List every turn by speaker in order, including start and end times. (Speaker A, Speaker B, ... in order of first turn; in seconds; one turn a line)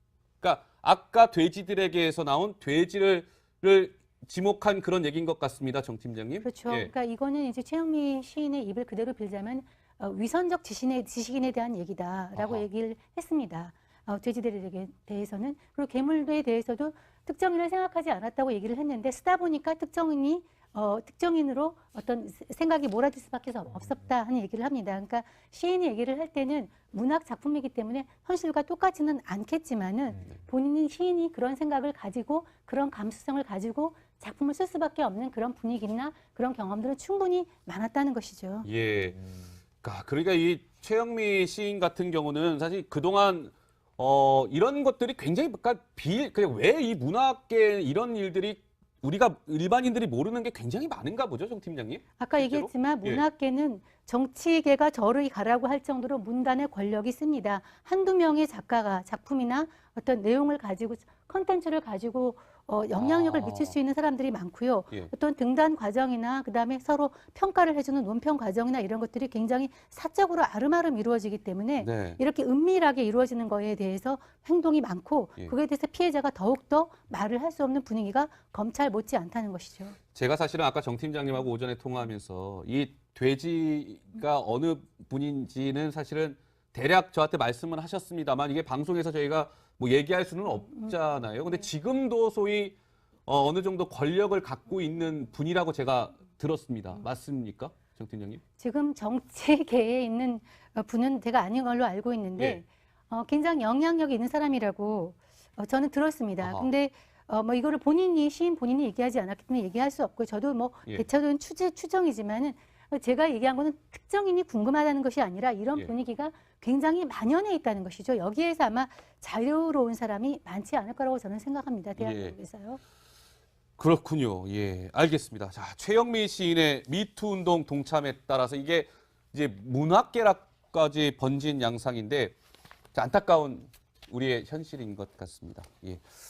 Speaker A: 0.4-6.9
Speaker B: 6.4-38.7
Speaker A: 12.4-12.6
Speaker A: 38.6-53.2
Speaker B: 52.2-80.0
Speaker A: 63.0-63.8
Speaker A: 71.8-72.2
Speaker A: 80.1-92.8
Speaker A: 93.3-98.4
Speaker B: 98.6-122.8
Speaker A: 102.4-102.6
Speaker A: 106.4-106.7
Speaker A: 122.0-122.3
Speaker A: 123.8-132.3
Speaker A: 132.9-136.0